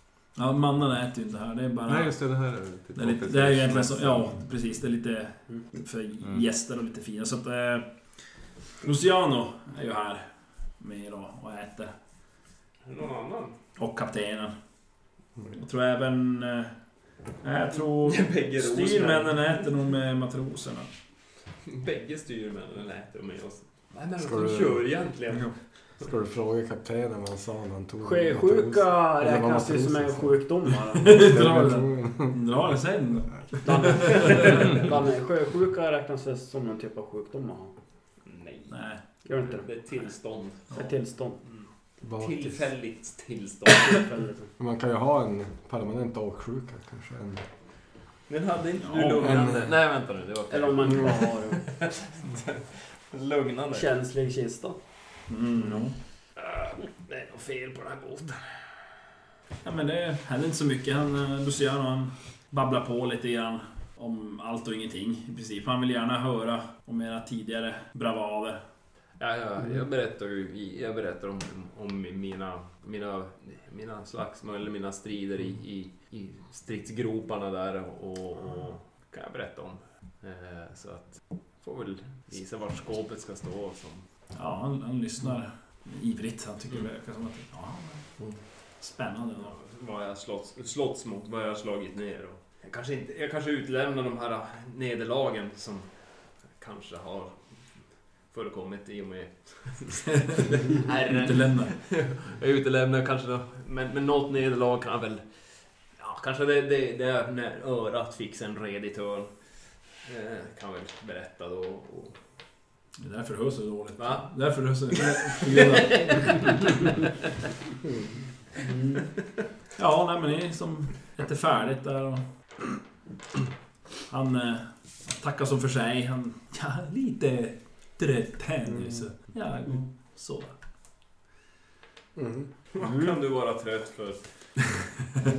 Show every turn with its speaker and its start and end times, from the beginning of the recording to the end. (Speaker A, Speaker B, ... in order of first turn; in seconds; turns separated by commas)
Speaker A: 0.3-2.1, Speaker B: 1.9-4.4, Speaker A: 2.9-7.9, Speaker A: 8.8-10.2, Speaker A: 10.8-11.9, Speaker C: 12.8-13.5, Speaker A: 13.8-14.5, Speaker A: 15.5-16.7, Speaker A: 17.4-20.9, Speaker C: 18.0-19.6, Speaker C: 21.7-25.5, Speaker D: 24.2-24.8, Speaker D: 26.0-30.4, Speaker E: 28.0-31.3, Speaker A: 31.0-34.6, Speaker D: 31.0-32.4, Speaker E: 33.6-37.7, Speaker C: 34.2-34.8, Speaker C: 38.2-38.7, Speaker A: 38.7-39.0, Speaker E: 39.2-39.6, Speaker C: 39.3-40.8, Speaker E: 40.7-41.4, Speaker D: 42.0-42.5, Speaker C: 42.2-44.1, Speaker E: 43.8-44.5, Speaker D: 44.6-47.4, Speaker C: 48.3-53.9, Speaker A: 48.8-49.5, Speaker E: 50.5-51.8, Speaker E: 53.7-54.8, Speaker A: 55.3-55.9, Speaker C: 56.4-58.6, Speaker A: 59.6-68.6, Speaker C: 69.2-84.0, Speaker A: 84.3-88.0, Speaker A: 88.8-89.5, Speaker C: 89.5-95.9, Speaker C: 96.5-97.4, Speaker C: 98.3-105.3, Speaker A: 101.1-101.7, Speaker C: 106.0-109.4, Speaker C: 110.0-112.2, Speaker A: 113.0-116.8, Speaker C: 114.0-114.2, Speaker C: 114.9-116.9, Speaker E: 118.6-119.0, Speaker A: 119.8-122.2, Speaker A: 124.1-130.5, Speaker D: 132.2-132.5, Speaker C: 132.7-134.2, Speaker E: 132.8-133.2